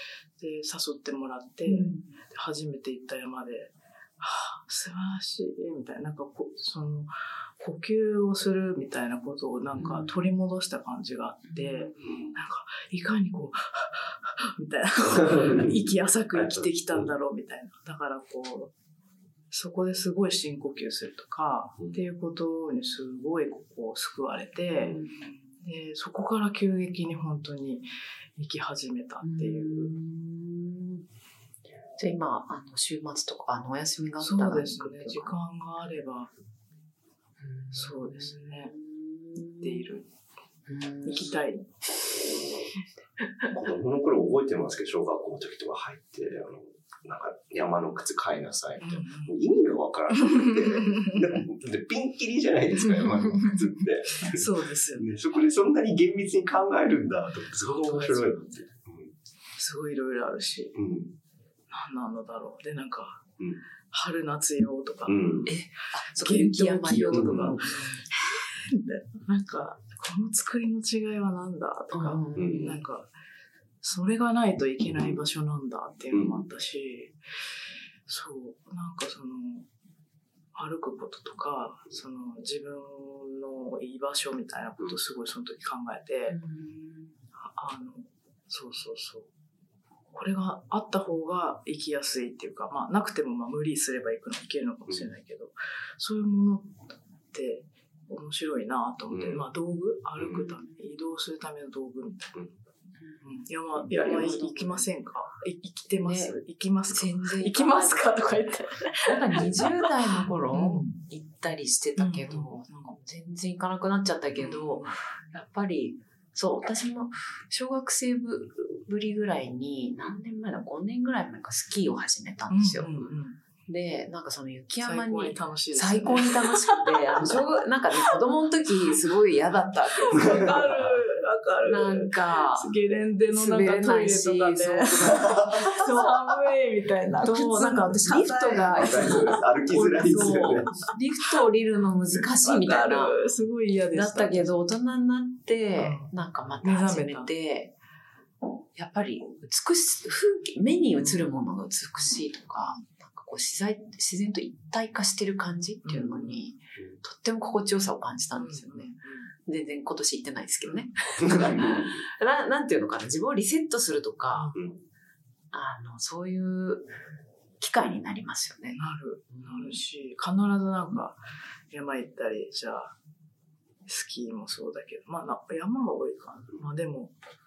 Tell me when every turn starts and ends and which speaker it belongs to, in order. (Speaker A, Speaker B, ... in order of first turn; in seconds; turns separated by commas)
Speaker A: 0.4-18.7, Speaker B: 1.6-2.0, Speaker B: 9.8-10.1, Speaker B: 11.5-11.9, Speaker C: 12.0-12.3, Speaker C: 15.2-15.7, Speaker C: 16.3-17.1, Speaker A: 19.5-25.0, Speaker B: 24.9-25.3, Speaker A: 25.6-29.9, Speaker B: 29.2-31.0, Speaker B: 32.0-35.3, Speaker A: 34.2-36.3, Speaker B: 37.4-39.9, Speaker A: 37.7-38.7, Speaker A: 39.5-40.1, Speaker B: 40.7-41.4, Speaker A: 41.0-41.8, Speaker C: 42.1-42.7, Speaker C: 43.5-59.1, Speaker A: 48.8-49.3, Speaker A: 50.2-51.2, Speaker A: 52.8-55.1, Speaker A: 57.7-58.4, Speaker A: 59.6-60.7, Speaker C: 60.7-61.1, Speaker A: 61.7-63.2, Speaker A: 63.9-65.4, Speaker C: 65.1-65.5, Speaker B: 65.5-68.0, Speaker A: 66.2-73.1, Speaker C: 67.0-67.5, Speaker B: 71.9-72.8, Speaker C: 72.3-72.8, Speaker A: 73.8-77.2, Speaker C: 76.1-76.4, Speaker A: 78.1-79.7, Speaker A: 80.5-86.4, Speaker B: 86.3-87.1, Speaker A: 87.4-89.3, Speaker A: 90.1-96.8, Speaker A: 97.3-102.3, Speaker C: 99.1-99.5, Speaker C: 100.2-100.4, Speaker B: 100.4-100.7, Speaker A: 103.2-111.0, Speaker B: 104.0-104.8, Speaker B: 106.0-106.3, Speaker B: 106.9-108.2, Speaker B: 109.0-122.9, Speaker A: 112.0-113.0, Speaker A: 114.4-114.9, Speaker A: 122.5-123.4, Speaker B: 123.7-130.6, Speaker A: 124.8-127.4, Speaker A: 130.0-139.4, Speaker C: 130.1-130.7, Speaker B: 131.7-132.7, Speaker B: 133.3-136.1, Speaker C: 135.1-135.7, Speaker B: 137.2-143.1, Speaker C: 138.7-140.8, Speaker A: 140.2-140.9, Speaker A: 142.4-144.5, Speaker B: 143.9-147.7, Speaker A: 145.8-147.3, Speaker B: 148.7-164.5, Speaker A: 151.0-151.3, Speaker A: 152.0-152.8, Speaker A: 155.8-156.4, Speaker A: 158.3-159.3, Speaker C: 161.2-161.8, Speaker A: 164.3-164.6, Speaker B: 165.5-166.9, Speaker B: 167.6-169.8, Speaker A: 168.7-171.2, Speaker A: 171.7-172.9, Speaker A: 173.9-177.1